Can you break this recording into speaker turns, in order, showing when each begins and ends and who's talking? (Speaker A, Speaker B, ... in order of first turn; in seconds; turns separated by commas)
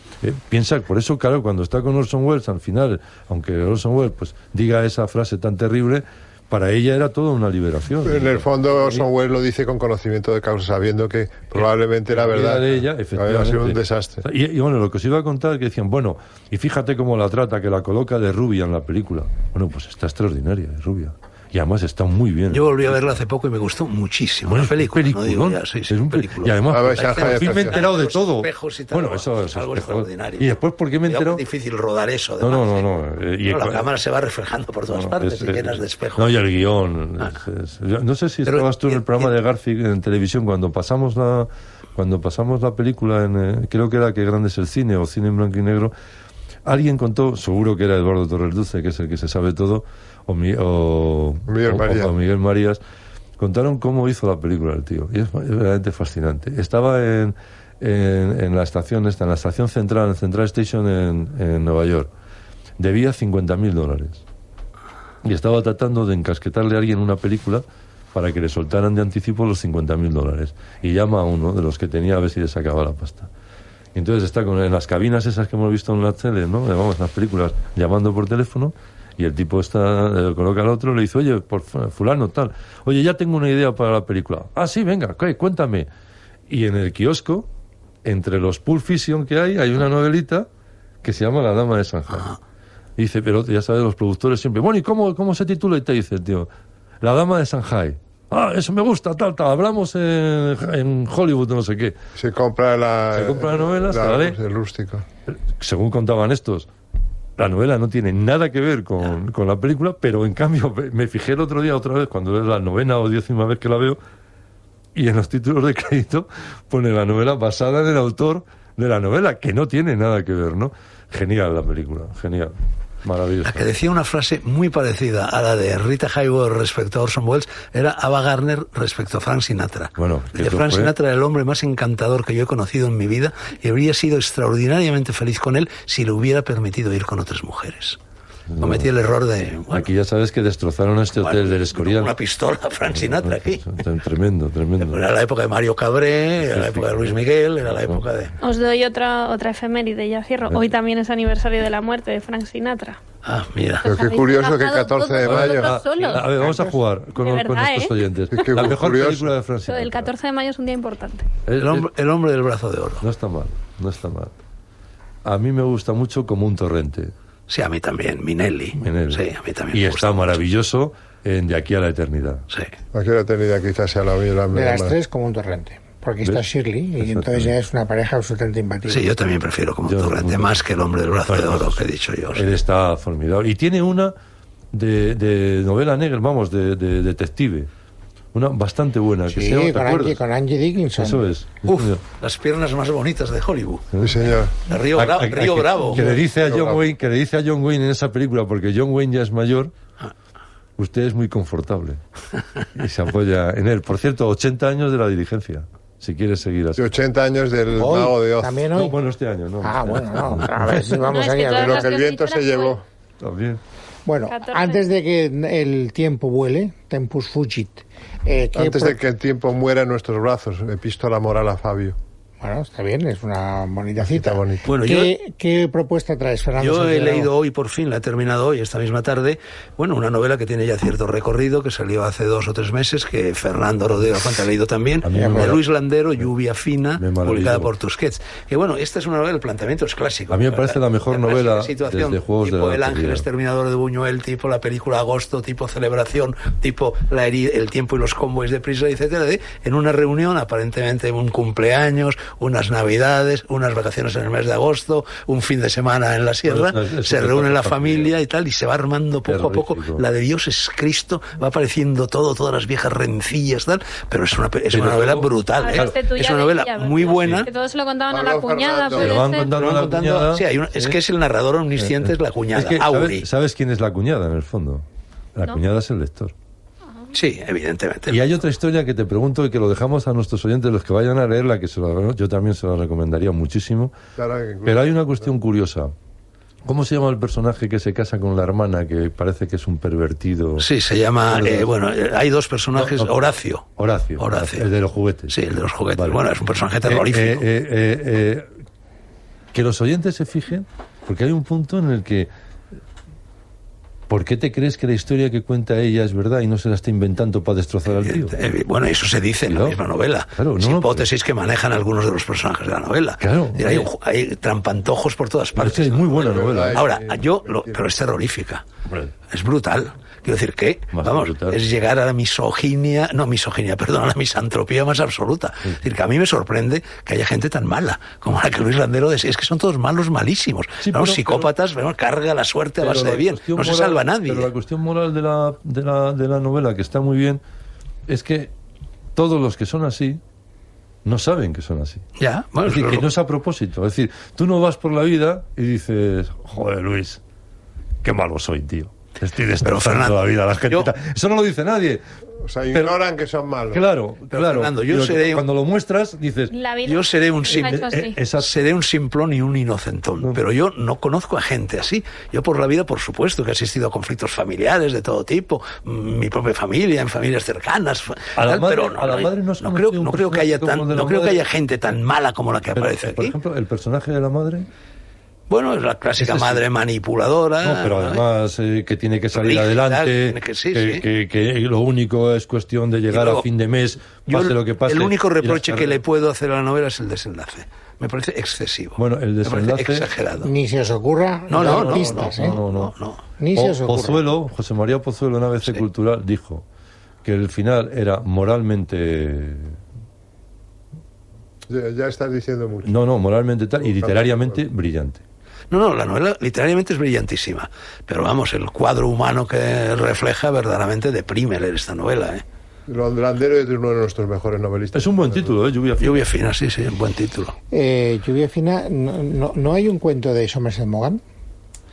Speaker A: 0.2-9.0, Speaker B: 8.0-14.2, Speaker A: 11.5-22.9, Speaker C: 22.5-32.8, Speaker A: 24.4-31.4, Speaker B: 26.7-27.9, Speaker A: 32.4-33.8, Speaker C: 33.4-36.3, Speaker A: 34.9-45.9, Speaker C: 38.4-39.4, Speaker A: 46.6-52.8, Speaker B: 51.5-52.1, Speaker A: 53.4-62.1, Speaker A: 62.8-64.2, Speaker A: 65.2-73.3, Speaker A: 73.9-85.9, Speaker A: 86.5-87.5, Speaker A: 88.0-90.5, Speaker A: 91.0-92.4, Speaker A: 93.0-96.5, Speaker A: 97.0-102.0, Speaker B: 102.2-105.0, Speaker A: 103.1-104.3, Speaker A: 105.3-106.7, Speaker A: 107.4-114.0, Speaker A: 114.9-123.7, Speaker C: 123.4-138.0, Speaker A: 130.0-130.9, Speaker A: 138.5-138.9, Speaker C: 138.6-139.9, Speaker A: 139.7-142.1, Speaker C: 141.2-143.6, Speaker A: 142.9-145.0, Speaker C: 144.8-148.3, Speaker A: 146.4-148.0, Speaker D: 148.4-153.0, Speaker C: 153.2-153.8, Speaker D: 153.8-156.4, Speaker B: 153.8-155.8, Speaker A: 155.2-160.1, Speaker D: 157.1-157.9, Speaker B: 158.3-159.3, Speaker D: 159.7-161.2, Speaker A: 161.4-161.9, Speaker C: 161.6-163.1, Speaker A: 163.0-164.3, Speaker A: 165.2-167.1, Speaker C: 167.5-170.4, Speaker A: 168.8-172.4, Speaker B: 172.9-174.9, Speaker E: 174.5-179.1, Speaker A: 177.0-177.5, Speaker C: 178.8-182.5, Speaker A: 179.8-180.5, Speaker A: 181.2-184.1, Speaker A: 184.7-187.7, Speaker A: 188.3-190.2, Speaker E: 189.3-191.2, Speaker A: 191.0-192.0, Speaker C: 191.6-193.9, Speaker A: 193.9-194.2, Speaker B: 194.0-194.5, Speaker C: 194.6-196.2, Speaker A: 194.9-199.7, Speaker B: 196.3-196.8, Speaker A: 200.8-202.0, Speaker A: 202.7-206.8, Speaker B: 206.8-208.6, Speaker E: 207.8-209.0, Speaker A: 208.7-211.0, Speaker E: 209.6-211.9, Speaker D: 210.9-212.8, Speaker B: 211.5-212.8, Speaker A: 213.2-213.6, Speaker E: 214.1-219.0, Speaker D: 214.3-214.8, Speaker B: 218.5-221.9, Speaker E: 222.4-227.3, Speaker B: 224.0-224.7, Speaker C: 224.6-225.1, Speaker C: 226.6-267.5, Speaker A: 235.0-235.6, Speaker E: 235.1-235.5, Speaker A: 237.0-237.7, Speaker A: 240.3-243.2, Speaker A: 256.5-258.1, Speaker A: 259.3-260.0, Speaker A: 264.7-266.0, Speaker D: 265.6-269.5, Speaker B: 268.1-269.2, Speaker A: 268.9-271.0, Speaker C: 269.4-273.3, Speaker A: 271.8-276.3, Speaker C: 277.1-278.2, Speaker A: 278.1-283.9, Speaker B: 284.2-285.2, Speaker A: 284.6-285.9, Speaker A: 286.6-290.7, Speaker C: 290.6-294.7, Speaker A: 291.3-291.7, Speaker A: 292.7-293.1, Speaker A: 293.8-295.4, Speaker C: 295.3-297.4, Speaker A: 295.9-296.2, Speaker A: 296.9-298.5, Speaker A: 299.5-302.3, Speaker A: 304.1-308.4, Speaker C: 307.9-316.2, Speaker A: 309.5-309.8, Speaker A: 310.3-311.1, Speaker A: 313.2-313.9, Speaker A: 315.6-316.8, Speaker B: 316.1-317.8, Speaker C: 316.7-318.6, Speaker A: 318.9-319.1, Speaker C: 319.3-334.5, Speaker A: 320.9-321.6, Speaker A: 330.8-331.5, Speaker A: 332.8-337.4, Speaker A: 338.1-338.5, Speaker A: 339.1-340.2, Speaker A: 341.0-342.1, Speaker C: 342.2-343.1, Speaker A: 342.6-347.2, Speaker A: 348.0-352.0, Speaker C: 349.6-350.9, Speaker B: 352.4-353.8, Speaker A: 353.7-356.5, Speaker C: 354.3-355.4, Speaker D: 356.5-358.2, Speaker C: 356.8-357.8, Speaker A: 357.5-358.5, Speaker C: 358.4-373.4, Speaker A: 368.4-371.4, Speaker A: 372.7-374.7, Speaker C: 375.5-378.2, Speaker A: 376.2-376.6, Speaker A: 377.6-386.0, Speaker C: 379.3-381.1, Speaker C: 383.1-383.5, Speaker C: 384.3-390.5, Speaker A: 389.0-390.1, Speaker E: 390.4-392.6, Speaker C: 391.5-393.2, Speaker A: 391.6-392.9, Speaker E: 393.4-394.2, Speaker A: 393.5-396.6, Speaker A: 397.2-399.8, Speaker B: 401.7-402.9, Speaker A: 402.8-405.2, Speaker B: 403.8-404.6, Speaker C: 405.7-412.4, Speaker B: 412.9-415.5, Speaker A: 414.9-416.3, Speaker C: 416.0-417.6, Speaker E: 417.7-421.2